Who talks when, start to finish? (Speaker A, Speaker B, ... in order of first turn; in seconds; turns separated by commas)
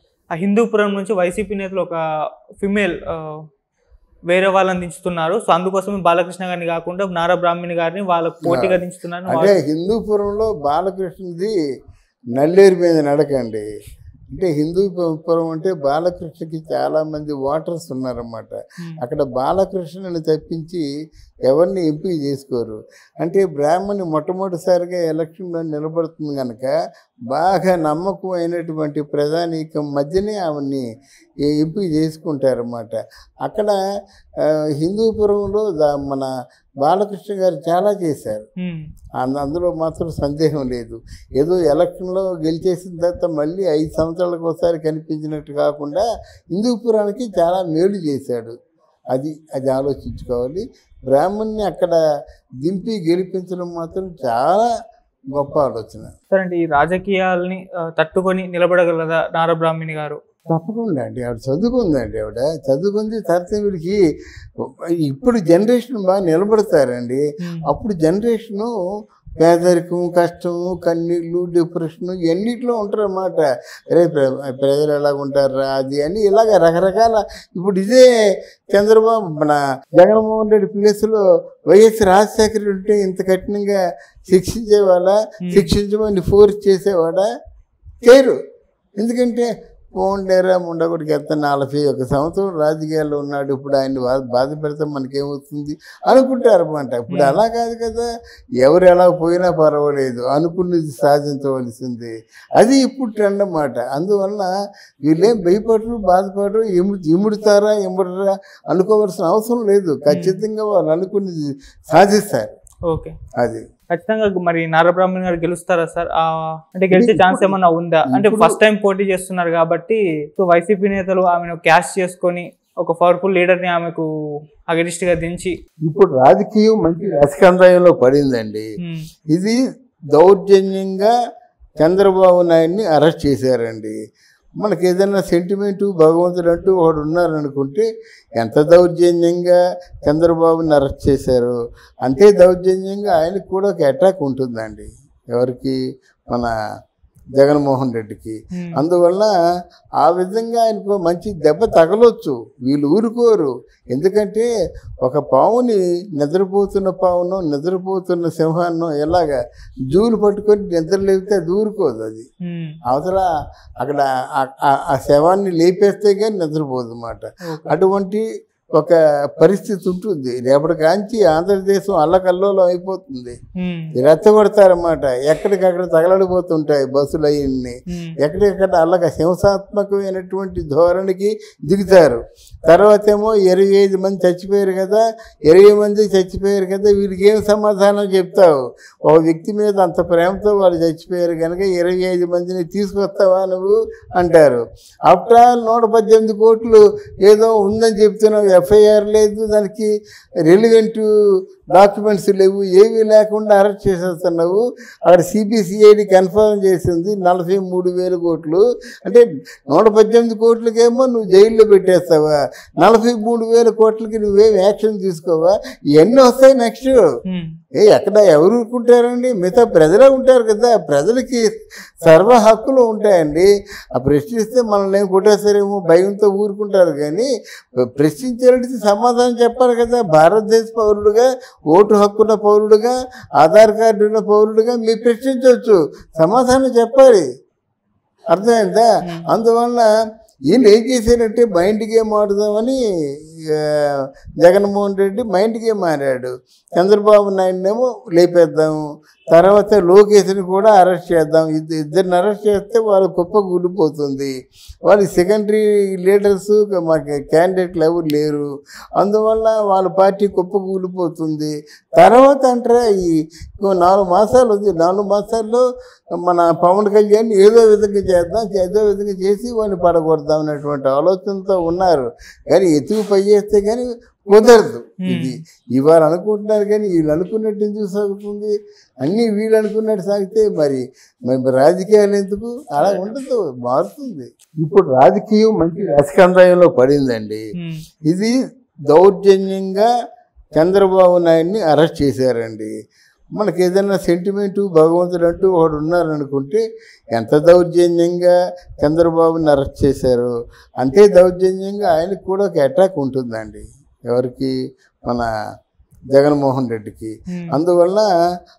Speaker A: 0.3-2.0, Speaker A: 2.6-3.3, Speaker A: 4.3-9.6, Speaker B: 8.4-11.5, Speaker B: 12.3-13.7, Speaker B: 14.3-20.8, Speaker B: 21.5-26.7, Speaker B: 27.3-30.8, Speaker B: 31.5-33.8, Speaker B: 34.4-36.3, Speaker B: 36.8-38.5, Speaker A: 38.6-38.8, Speaker B: 39.2-48.5, Speaker B: 49.1-52.0, Speaker B: 52.6-54.7, Speaker B: 55.3-56.1, Speaker A: 56.3-60.2, Speaker B: 60.5-64.0, Speaker B: 64.6-68.7, Speaker B: 69.4-78.1, Speaker B: 78.7-87.2, Speaker A: 85.5-85.7, Speaker B: 88.0-88.3, Speaker B: 89.0-98.1, Speaker A: 97.1-97.4, Speaker B: 98.6-104.5, Speaker B: 105.0-112.5, Speaker A: 110.1-110.4, Speaker A: 112.9-113.2, Speaker B: 113.4-113.6, Speaker A: 113.9-124.0, Speaker B: 116.9-117.5, Speaker B: 118.1-118.6, Speaker A: 124.7-125.5, Speaker B: 125.8-128.7, Speaker B: 129.3-129.6, Speaker B: 130.1-131.1, Speaker B: 131.8-133.9, Speaker B: 134.6-137.8, Speaker B: 138.4-145.8, Speaker B: 147.4-149.3, Speaker A: 148.5-148.8, Speaker B: 150.0-154.5, Speaker B: 155.0-159.3, Speaker B: 159.9-162.3, Speaker A: 162.4-162.8, Speaker B: 162.9-163.3, Speaker B: 163.8-173.3, Speaker A: 167.5-167.8, Speaker A: 173.6-173.9, Speaker B: 174.0-199.9, Speaker A: 177.9-178.2, Speaker B: 200.4-201.1, Speaker B: 201.7-217.0, Speaker A: 217.3-217.5, Speaker B: 217.8-221.4, Speaker B: 222.0-237.2, Speaker B: 238.3-239.9, Speaker B: 240.5-242.8, Speaker B: 243.5-248.8, Speaker B: 249.3-254.3, Speaker B: 254.9-265.6, Speaker B: 266.2-287.4, Speaker A: 275.0-275.3, Speaker A: 282.8-283.1, Speaker A: 287.6-287.8, Speaker B: 288.1-288.3, Speaker B: 288.9-289.9, Speaker B: 290.6-292.7, Speaker B: 293.4-304.5, Speaker B: 306.1-308.1, Speaker A: 307.3-307.6